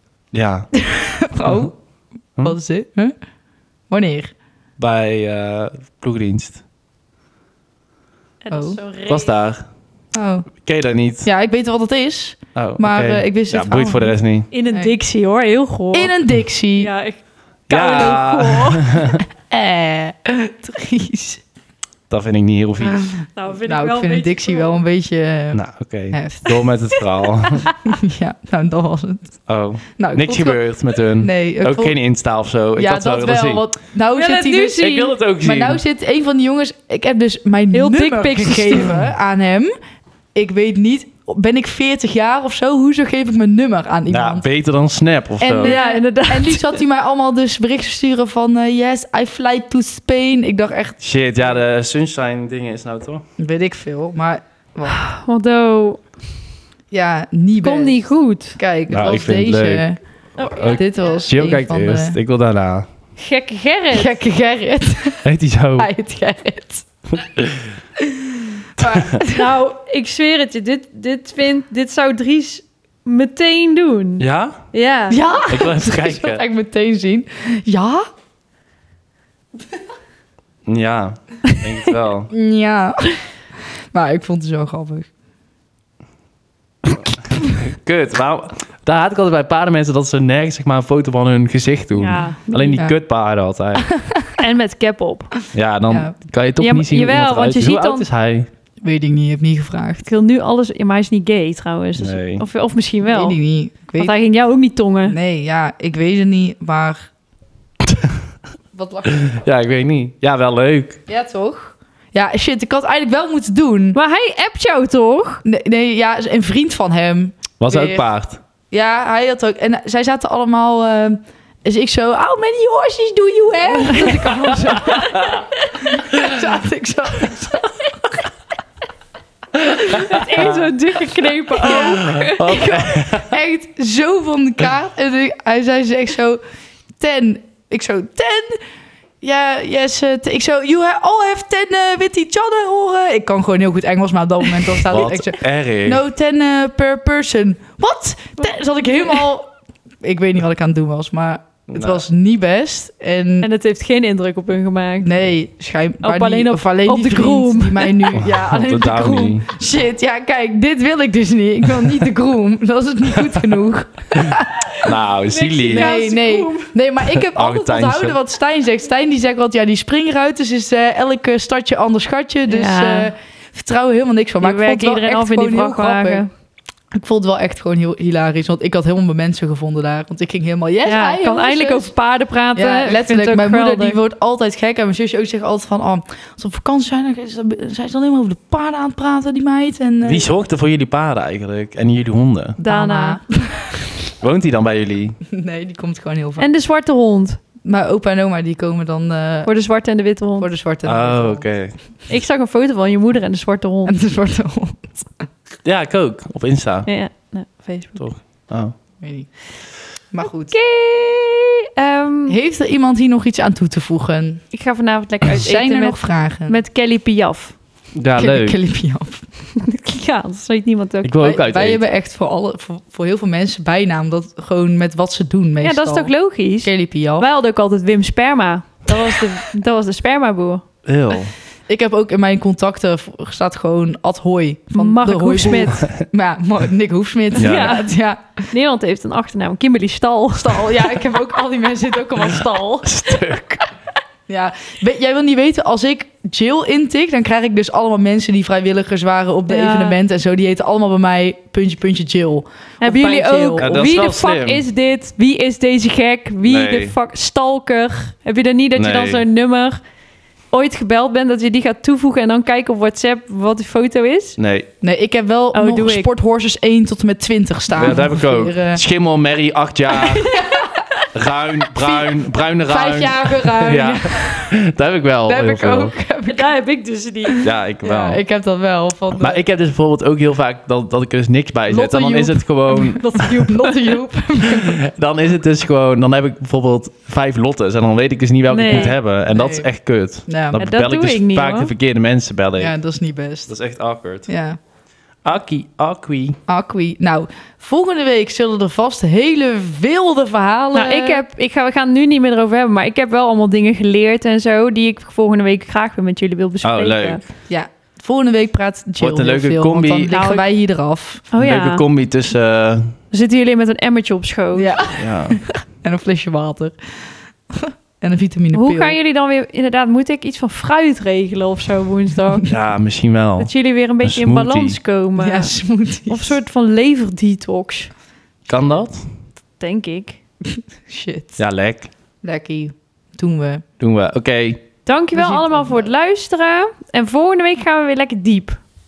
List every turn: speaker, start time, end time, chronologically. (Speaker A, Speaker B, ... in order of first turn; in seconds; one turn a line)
Speaker A: 0.3-0.7
Speaker B: 0.8-1.7
Speaker B: 2.4-3.1
Speaker B: 3.9-4.3
Speaker A: 4.8-6.6
Speaker C: 8.4-9.3
Speaker B: 8.5-8.8
Speaker A: 9.1-9.6
Speaker B: 10.1-10.5
Speaker A: 10.6-11.2
Speaker B: 11.2-14.2
Speaker A: 12.5-14.5
Speaker C: 14.5-16.1
Speaker B: 15.9-16.9
Speaker C: 16.8-19.0
Speaker A: 17.7-19.2
Speaker B: 19.3-21.4
Speaker A: 22.1-23.1
Speaker B: 22.9-26.5
Speaker C: 23.4-24.8
Speaker A: 25.5-27.7
Speaker C: 27.4-28.0
Speaker B: 27.9-29.3
Speaker A: 29.5-33.6
Speaker B: 30.0-30.6
Speaker B: 31.2-31.9
Speaker B: 32.8-39.7
Speaker C: 34.1-35.1
Speaker A: 34.8-35.8
Speaker C: 37.7-39.0
Speaker B: 40.3-44.4
Speaker A: 44.1-45.8
Speaker B: 45.4-51.6
Speaker C: 45.6-46.8
Speaker A: 51.0-53.2
Speaker B: 53.4-55.0
Speaker C: 54.9-56.0
Speaker B: 56.9-58.0
Speaker C: 57.6-58.6
Speaker B: 58.5-60.0
Speaker A: 58.9-59.9
Speaker C: 60.4-60.8
Speaker A: 60.4-62.9
Speaker B: 60.7-62.1
Speaker C: 63.2-64.2
Speaker B: 63.9-65.2
Speaker A: 65.2-65.9
Speaker B: 65.8-66.9
Speaker A: 67.2-67.5
Speaker B: 68.0-69.5
Speaker A: 68.8-69.2
Speaker C: 69.3-75.2
Speaker A: 74.2-74.6
Speaker B: 75.1-78.0
Speaker A: 75.5-76.4
Speaker A: 80.7-82.3
Speaker B: 82.3-83.2
Speaker B: 83.9-85.1
Speaker A: 86.9-94.0
Speaker C: 91.9-92.8
Speaker B: 93.9-94.3
Speaker C: 94.4-95.3
Speaker A: 95.5-98.5
Speaker B: 95.9-96.1
Speaker C: 96.6-98.1
Speaker B: 98.8-100.0
Speaker C: 100.0-103.4
Speaker A: 102.0-102.4
Speaker B: 103.0-104.1
Speaker C: 104.0-105.2
Speaker B: 105.1-107.1
Speaker A: 107.9-108.1
Speaker B: 108.7-109.2
Speaker A: 109.1-111.0
Speaker B: 111.1-114.0
Speaker C: 113.9-115.4
Speaker B: 115.4-118.0
Speaker A: 117.6-118.4
Speaker B: 118.7-127.9
Speaker C: 123.8-126.0
Speaker C: 129.7-132.7
Speaker B: 131.5-136.4
Speaker A: 131.7-133.3
Speaker B: 137.0-138.6
Speaker B: 139.2-149.5
Speaker A: 144.9-146.0
Speaker B: 150.0-153.5
Speaker A: 151.7-152.0
Speaker C: 153.4-155.1
Speaker B: 155.0-164.9
Speaker C: 156.0-158.1
Speaker A: 158.1-159.4
Speaker A: 164.1-166.0
Speaker C: 165.3-166.7
Speaker B: 165.7-176.2
Speaker A: 167.1-168.2
Speaker C: 172.5-173.1
Speaker C: 174.4-176.3
Speaker B: 176.9-181.9
Speaker C: 180.8-184.0
Speaker B: 182.5-190.3
Speaker A: 190.1-192.6
Speaker C: 192.6-193.2
Speaker B: 192.6-193.9
Speaker A: 194.1-195.2
Speaker B: 195.3-196.5
Speaker C: 196.4-197.4
Speaker B: 197.6-199.5
Speaker C: 199.4-200.5
Speaker B: 200.4-201.5
Speaker A: 200.8-201.8
Speaker C: 202.1-204.0
Speaker B: 203.8-205.3
Speaker A: 205.6-206.9
Speaker C: 206.8-208.0
Speaker A: 208.0-208.7
Speaker B: 209.0-209.3
Speaker B: 210.1-210.5
Speaker C: 210.3-212.4
Speaker B: 212.3-214.4
Speaker C: 214.5-217.6
Speaker B: 215.3-216.6
Speaker A: 217.9-218.6
Speaker B: 218.2-219.2
Speaker C: 219.6-221.1
Speaker A: 221.0-221.8
Speaker B: 221.2-226.1
Speaker C: 225.6-230.6
Speaker B: 226.6-227.3
Speaker A: 230.8-231.3
Speaker B: 231.7-238.4
Speaker C: 234.7-235.8
Speaker A: 237.3-237.8
Speaker C: 237.3-237.9
Speaker C: 238.5-241.0
Speaker B: 240.4-242.6
Speaker C: 242.1-243.1
Speaker A: 242.8-243.6
Speaker B: 244.3-253.8
Speaker C: 249.5-250.0
Speaker C: 252.8-259.8
Speaker A: 253.6-254.6
Speaker A: 256.4-256.9
Speaker A: 258.8-259.2
Speaker C: 260.5-264.4
Speaker A: 264.4-264.7
Speaker B: 264.8-268.8
Speaker C: 265.5-266.1
Speaker A: 267.7-270.4
Speaker C: 270.0-271.1
Speaker B: 270.3-270.7
Speaker A: 271.1-275.9
Speaker B: 272.6-274.5
Speaker B: 275.3-276.5
Speaker C: 276.3-277.4
Speaker B: 277.2-279.4
Speaker A: 277.4-278.2
Speaker A: 279.2-283.6
Speaker B: 281.7-284.8
Speaker A: 284.5-292.7
Speaker C: 288.5-288.9
Speaker B: 288.7-289.7
Speaker B: 290.3-290.6
Speaker C: 290.6-291.7
Speaker B: 292.6-293.5
Speaker A: 293.5-294.3
Speaker B: 294.3-294.6
Speaker A: 295.2-296.4
Speaker B: 296.5-301.2
Speaker C: 300.7-307.2
Speaker A: 306.6-307.2
Speaker B: 307.5-311.2
Speaker A: 309.0-310.2
Speaker C: 310.1-310.4
Speaker C: 311.3-311.8
Speaker A: 311.4-312.9
Speaker C: 313.1-314.9
Speaker B: 314.5-316.8
Speaker A: 314.9-315.4
Speaker B: 317.5-318.9
Speaker C: 318.5-322.5
Speaker A: 322.4-323.5
Speaker C: 323.4-325.5
Speaker A: 324.0-324.8
Speaker B: 325.2-326.3
Speaker C: 326.1-327.9
Speaker A: 328.5-329.0
Speaker C: 329.6-330.2
Speaker B: 330.9-331.4
Speaker A: 331.4-331.9
Speaker B: 332.2-333.6
Speaker A: 333.8-334.6
Speaker C: 334.9-338.6
Speaker B: 335.1-335.9